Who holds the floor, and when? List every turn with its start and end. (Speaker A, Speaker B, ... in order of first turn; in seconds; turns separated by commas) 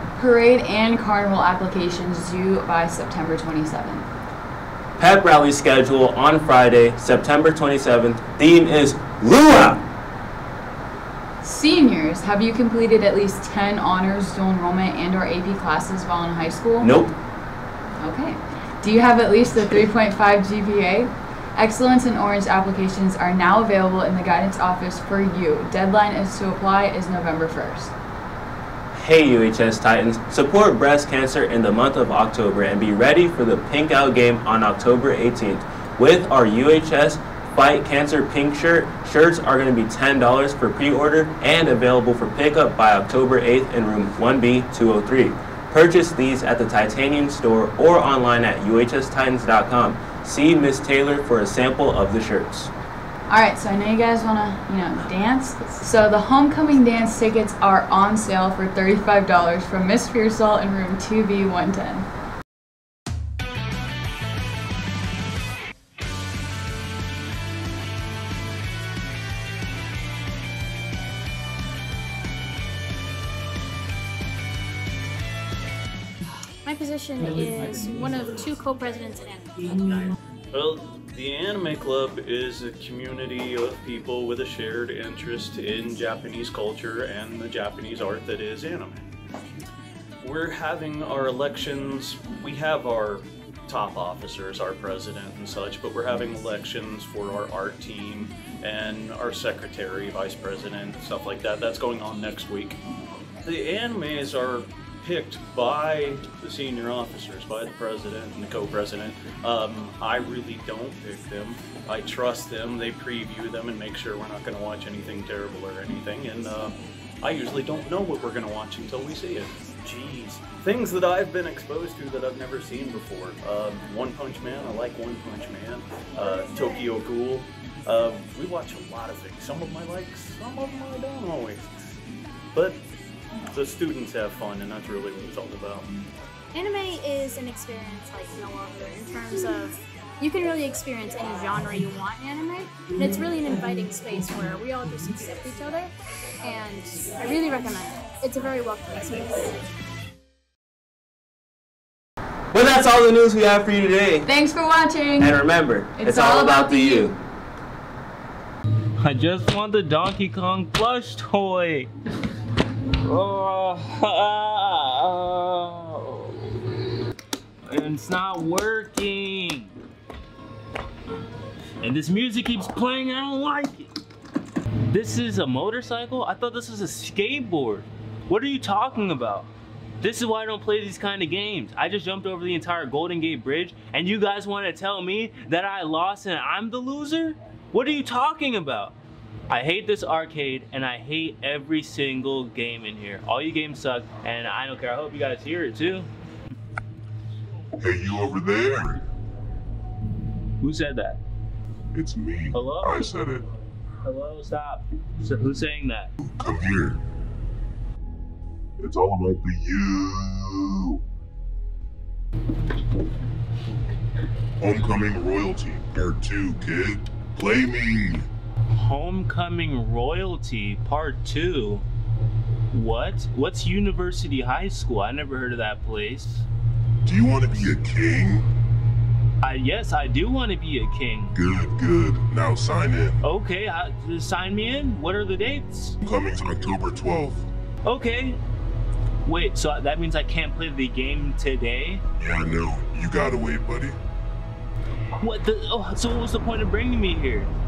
Speaker A: 0.2-4.1, Speaker B: 5.0-9.8, Speaker A: 11.4-16.9, Speaker B: 16.8-17.1, Speaker A: 18.0-27.9, Speaker B: 28.9-52.7, Speaker A: 53.3-62.1, Speaker C: 76.6-80.1, Speaker D: 80.5-89.1, Speaker D: 90.2-102.8, Speaker D: 103.4-131.7, Speaker D: 132.5-132.8, Speaker D: 133.5-135.9, Speaker C: 136.5-145.9, Speaker C: 146.4-149.6, Speaker B: 152.5-154.3, Speaker A: 154.2-155.4, Speaker B: 155.2-157.2, Speaker A: 155.9-157.1, Speaker E: 159.0-161.9, Speaker E: 163.1-166.4, Speaker E: 167.7-169.7, Speaker E: 171.8-173.9, Speaker E: 174.9-179.5, Speaker E: 180.0-188.9, Speaker E: 189.5-196.1, Speaker F: 197.8-199.0, Speaker E: 200.6-201.2, Speaker F: 201.9-203.5, Speaker E: 202.5-203.1, Speaker E: 204.0-206.1, Speaker F: 206.2-207.0, Speaker F: 208.8-211.0, Speaker F: 214.6-218.3, Speaker E: 218.7-221.8, Speaker E: 222.7-226.4, Speaker F: 227.0-228.5, Speaker E: 229.4-231.3, Speaker F: 231.3-233.2, Speaker E: 233.2-236.0, Speaker F: 236.0-237.5, Speaker E: 237.8-238.4, Speaker E: 239.3-242.0, Speaker F: 242.2-244.0, Speaker E: 245.2-247.5